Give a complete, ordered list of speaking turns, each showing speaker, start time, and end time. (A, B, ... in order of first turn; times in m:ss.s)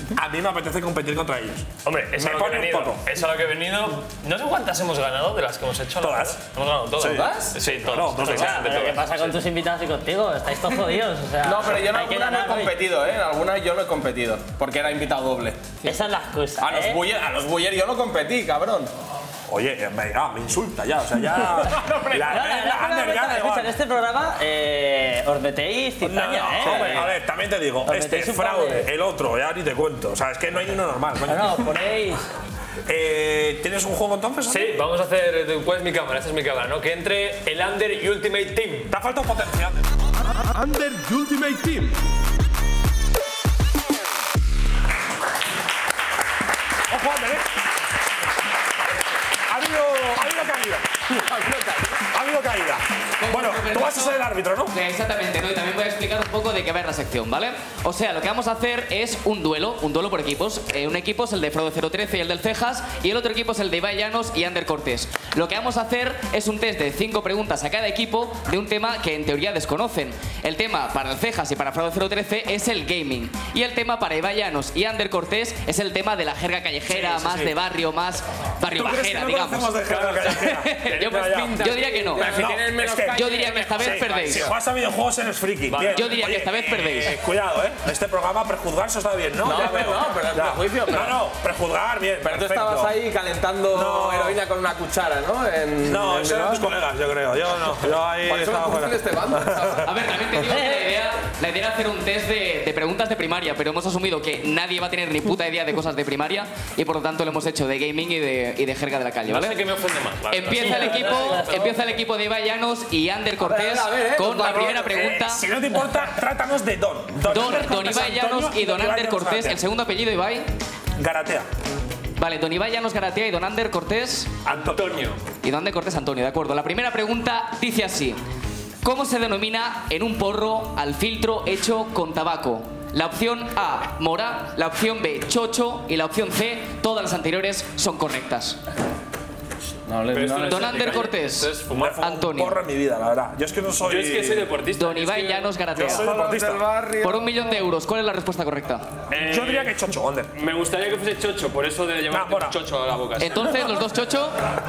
0:00.1-0:03.0 A
0:01.8-0:09.4 B
0:06.0-0:06.4 A
0:07.0-0:08.6 A
0:07.0-0:07.7 C
0:08.3-0:12.8 D
0:11.4-0:16.0 C
0:15.8-0:17.0 D
0:16.6-0:18.9 C
0:19.5-0:23.7 A
0:21.6-0:22.5 C
0:22.2-0:27.1 D
0:26.0-0:31.7 A
0:27.8-0:28.9 D
0:31.3-0:32.2 D
0:32.9-0:34.8 A
0:34.5-0:38.9 B
0:38.9-0:39.8 A
0:40.5-0:41.9 C
0:46.9-0:47.5 A
0:49.5-0:51.0 A
0:51.1-0:52.0 C
0:52.1-0:54.7 A
0:53.2-1:19.7 E
1:17.0-1:17.4 B
1:17.1-1:17.4 A
1:18.6-1:21.6 A
1:19.9-1:20.3 B
1:20.4-1:22.4 E
1:20.9-1:21.8 B
1:21.0-1:24.6 C
1:22.2-1:33.0 A
1:23.1-1:24.5 E
1:25.7-1:26.2 B
1:25.9-1:27.2 E
1:29.4-1:31.2 C
1:32.2-1:36.7 C
1:33.7-1:34.4 A
1:35.8-1:39.9 A
1:38.2-1:39.9 C
1:39.8-1:49.6 E
1:40.4-1:40.8 D
1:49.3-1:51.6 B
1:50.3-1:55.4 E
1:50.6-1:51.8 D
1:53.4-1:55.0 C
1:54.4-1:59.6 A
1:57.3-2:00.4 E
2:01.0-2:01.5 A
2:02.2-2:04.3 E
2:04.4-2:05.0 A
2:04.5-2:05.2 B
2:05.4-2:08.2 E
2:08.8-2:18.6 E
2:19.9-2:21.1 C
2:20.1-2:22.0 B
2:20.4-2:22.6 E
2:21.7-2:24.5 A
2:23.8-2:25.6 B
2:24.8-2:26.1 E
2:25.7-2:26.8 A
2:25.8-2:27.5 C
2:27.0-2:28.8 E
2:29.1-2:29.8 B
2:29.2-2:30.3 A
2:30.3-2:33.6 B
2:32.1-2:32.6 A
2:33.2-2:34.4 E